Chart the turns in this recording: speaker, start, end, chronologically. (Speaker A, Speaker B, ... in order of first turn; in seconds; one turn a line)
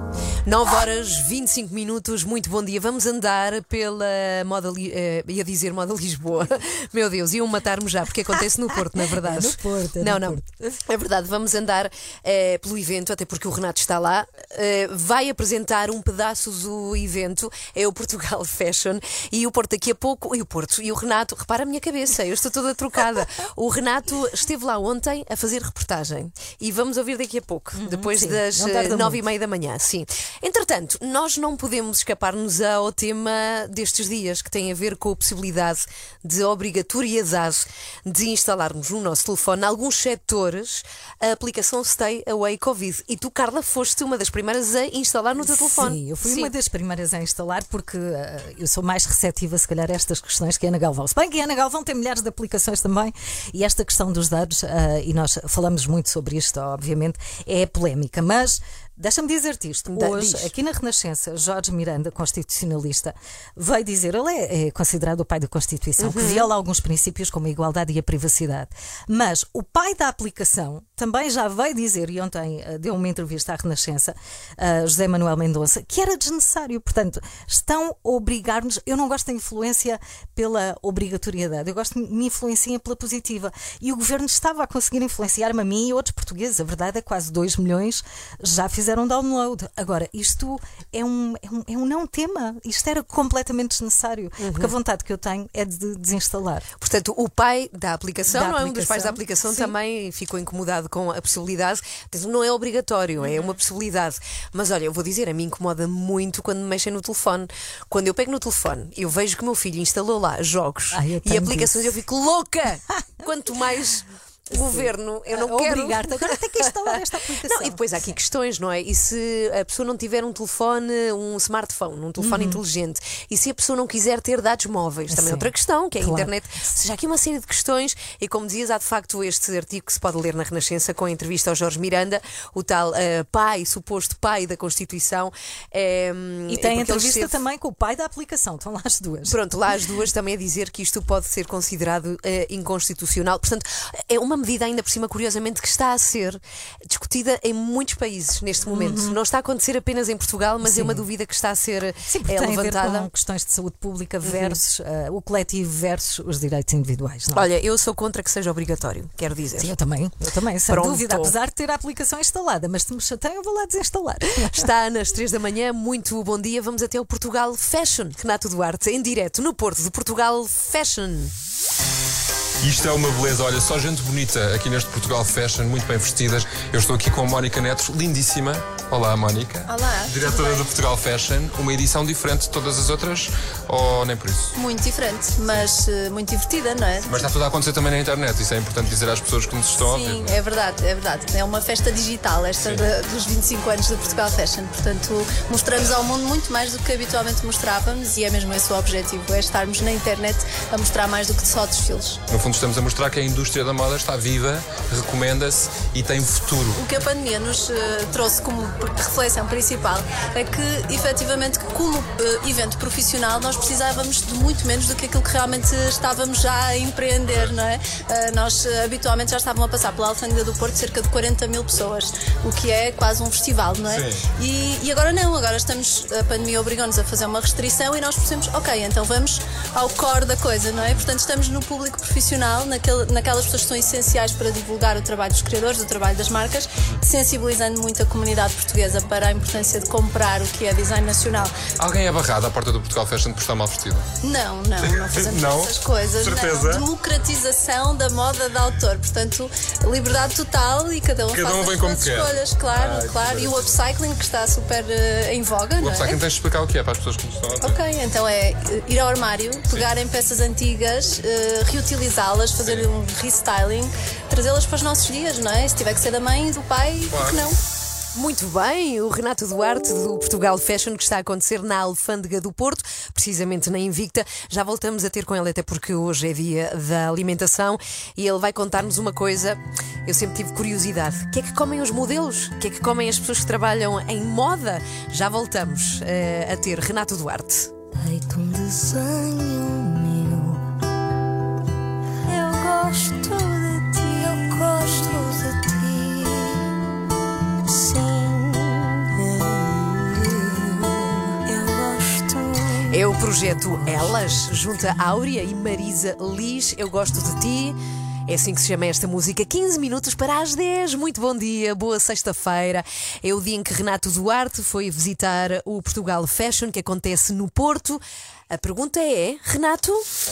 Speaker A: 0.5-46.5
Speaker B: 9.0-10.8
Speaker B: 27.8-29.2
Speaker B: 45.7-96.7
Speaker A: 59.9-60.5
Speaker A: 66.0-66.5
Speaker A: 94.4-94.7
Speaker A: 96.8-137.3
Speaker B: 98.3-99.7
Speaker B: 110.9-111.9
Speaker B: 114.5-118.2
Speaker B: 122.2-122.6
Speaker B: 125.1-126.3
Speaker B: 136.5-139.4
Speaker A: 139.3-153.1
Speaker B: 148.7-149.2
Speaker B: 150.6-151.1
Speaker B: 152.1-157.5
Speaker A: 154.2-154.6
Speaker A: 157.3-159.8
Speaker B: 159.6-164.6
Speaker A: 160.7-161.3
Speaker A: 164.4-171.3
Speaker C: 172.6-184.5
Speaker D: 179.7-180.7
Speaker D: 184.6-187.2
Speaker C: 187.1-190.3
Speaker D: 189.8-202.2
Speaker C: 202.3-206.8
Speaker D: 206.8-241.6
Speaker C: 217.3-217.6
Speaker C: 223.9-224.2
Speaker C: 241.8-244.1
Speaker D: 244.2-256.2
Speaker C: 244.8-246.8
Speaker C: 251.3-253.8
Speaker C: 255.8-257.8
Speaker D: 257.6-267.6
Speaker C: 262.6-262.9
Speaker C: 267.1-267.4
Speaker A: 268.1-287.7
Speaker E: 287.9-290.6
Speaker E: 292.3-296.7
Speaker E: 297.7-303.0
Speaker A: 302.9-320.0
Speaker E: 303.6-304.4